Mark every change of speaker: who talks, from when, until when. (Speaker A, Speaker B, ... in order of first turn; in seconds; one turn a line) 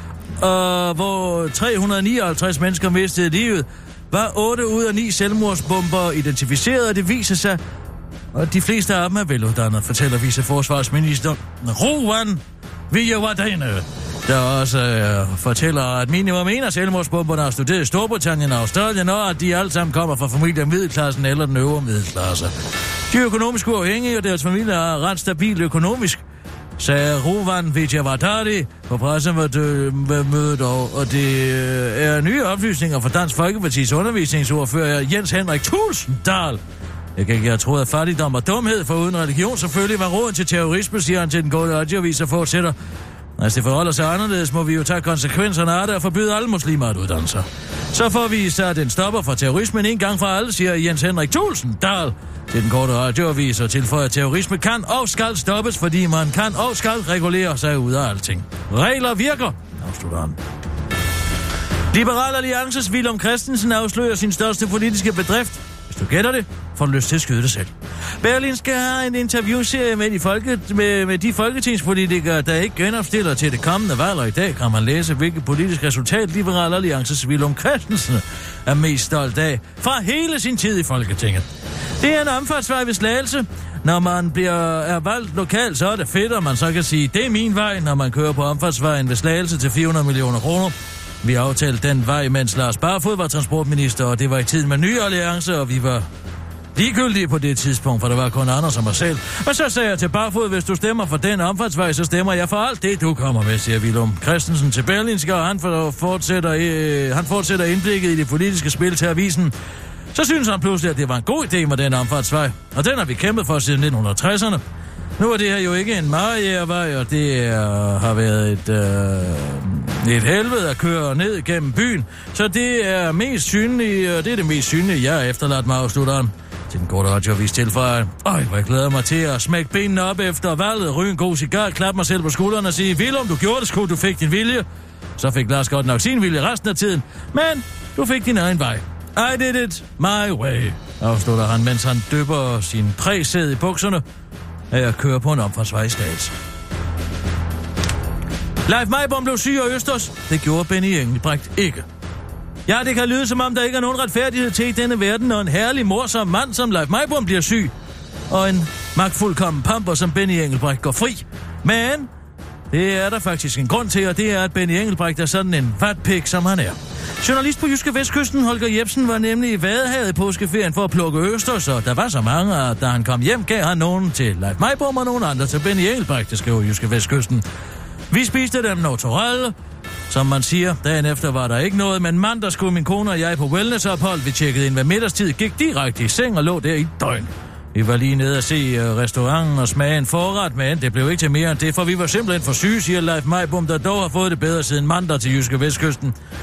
Speaker A: 0.4-7.6
Speaker A: 8.3-22.5
Speaker A: 23.1-26.2
Speaker A: 26.8-36.6
Speaker A: 37.1-42.7
Speaker A: 43.4-60.4
Speaker A: 61.9-81.4
Speaker A: 82.0-96.0
Speaker A: 96.7-109.5
Speaker A: 110.1-114.6
Speaker A: 115.2-134.7
Speaker A: 135.2-144.0
Speaker A: 144.7-146.3
Speaker A: 148.6-151.8
Speaker A: 152.7-157.7
Speaker A: 158.3-162.1
Speaker A: 162.7-177.4
Speaker A: 178.1-179.5
Speaker A: 180.1-196.1